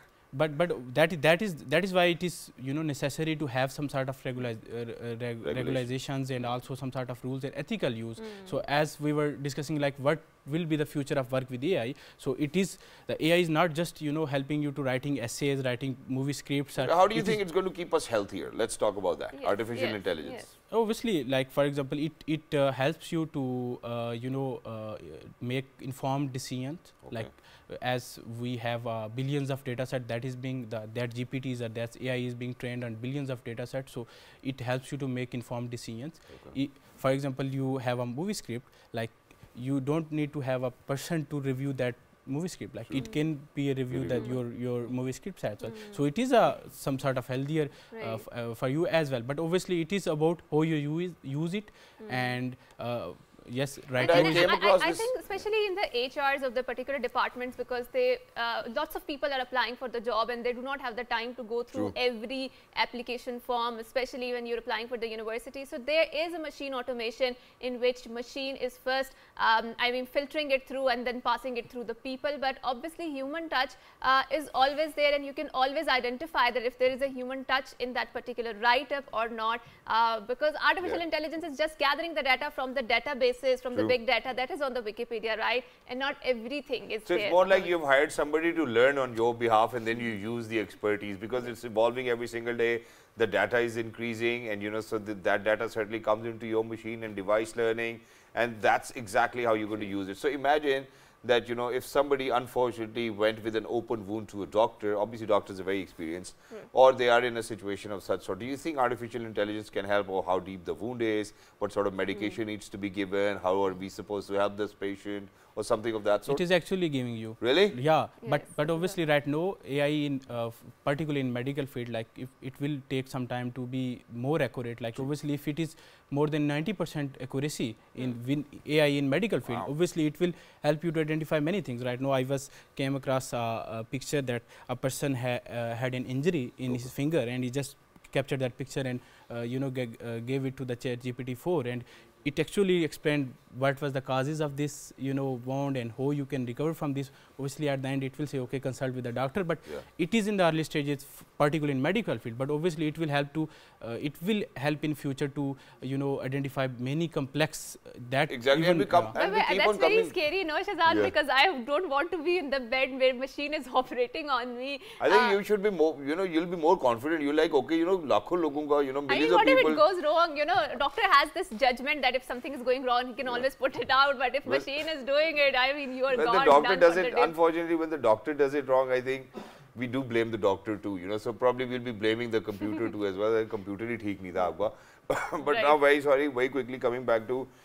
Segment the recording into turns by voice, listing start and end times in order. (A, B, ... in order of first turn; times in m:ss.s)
0:00.3-0:17.4 A
0:05.4-0:05.9 B
0:08.2-0:08.5 C
0:16.8-0:20.5 B
0:19.3-0:20.5 C
0:20.7-0:54.5 A
0:27.0-0:27.3 B
0:43.0-0:43.3 C
0:43.9-0:44.2 B
0:44.1-0:44.4 C
0:45.6-0:46.0 C
0:47.9-0:48.2 C
0:52.0-0:52.4 C
0:54.0-1:27.7 C
0:54.0-0:55.3 B
1:27.1-1:56.4 B
1:52.1-1:52.4 C
1:56.3-2:39.1 A
1:57.4-1:57.8 B
1:58.2-1:59.0 C
2:09.4-2:09.7 B
2:38.3-2:40.1 B
2:39.1-2:45.4 C
2:40.9-2:41.1 B
2:45.0-2:49.8 B
2:49.1-2:57.3 C
2:56.1-3:07.5 B
3:05.4-3:05.8 C